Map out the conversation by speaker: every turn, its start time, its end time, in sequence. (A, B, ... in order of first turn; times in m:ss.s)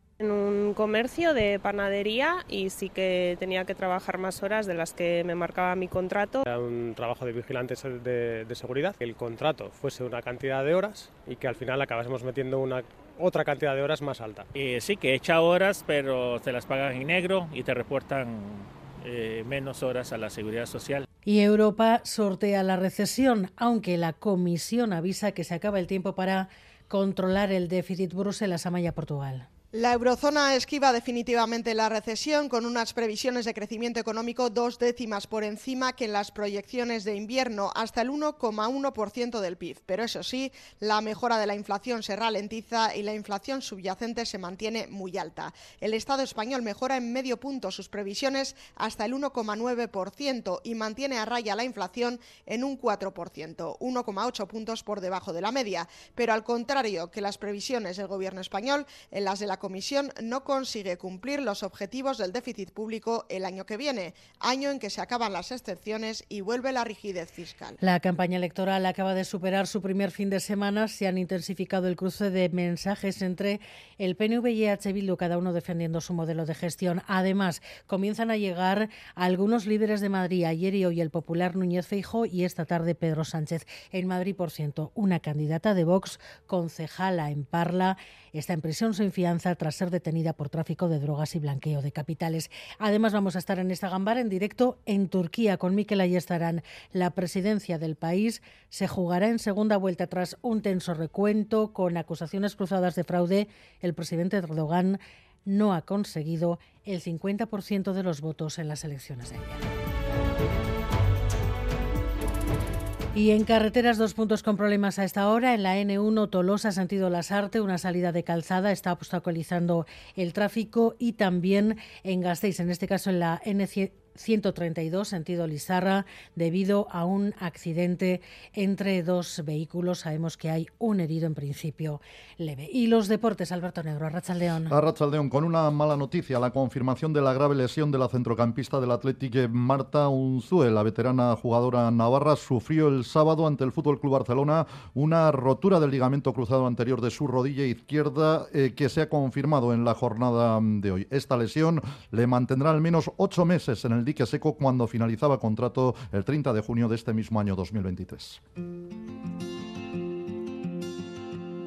0:00.2-0:06.4 A
0:06.4-0:14.5 B
0:14.6-0:21.0 C
0:21.2-0:29.5 D
0:29.7-1:07.8 E
1:07.8-1:49.6 D
1:53.1-2:14.7 D
2:14.7-2:38.4 F